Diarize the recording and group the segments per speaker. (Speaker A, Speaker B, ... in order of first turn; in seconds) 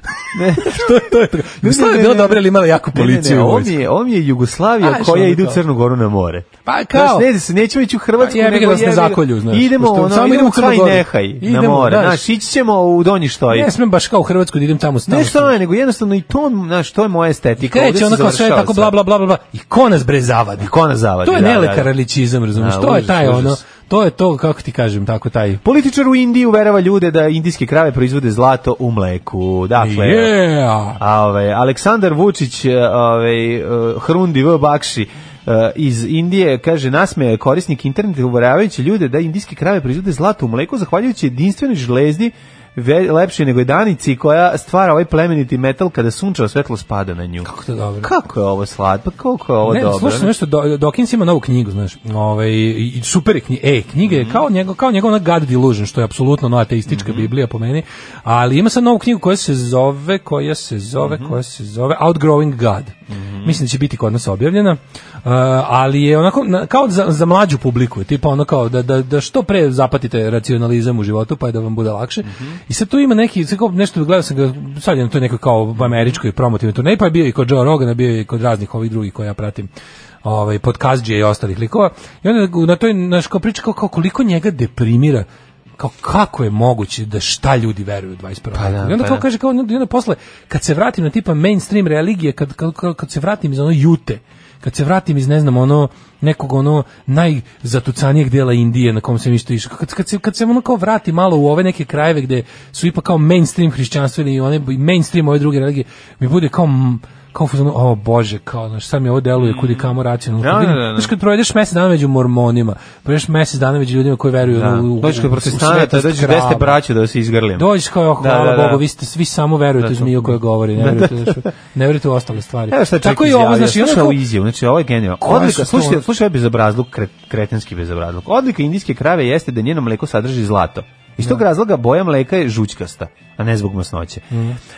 Speaker A: 0.3-1.0, 1.6-13.7, 15.1-18.9, 20.6-21.9, 22.5-23.6, 25.6-30.3, 31.0-47.5, 48.0-50.3, 54.0-54.4, 56.9-57.3, 61.0-61.4, 63.1-63.6, 72.2-72.6, 75.8-76.2, 88.5-89.2, 109.4-111.1, 114.5-118.8, 119.8-121.5, 122.7-134.3
Speaker B: 0.5-3.8, 4.8-5.6, 6.7-7.3, 8.2-12.2, 13.5-15.5, 17.6-20.7, 21.2-25.6, 29.8-31.0, 47.4-48.1, 49.6-79.7, 80.2-85.2, 85.8-116.8, 117.6-124.2, 125.2-126.0, 134.3-134.6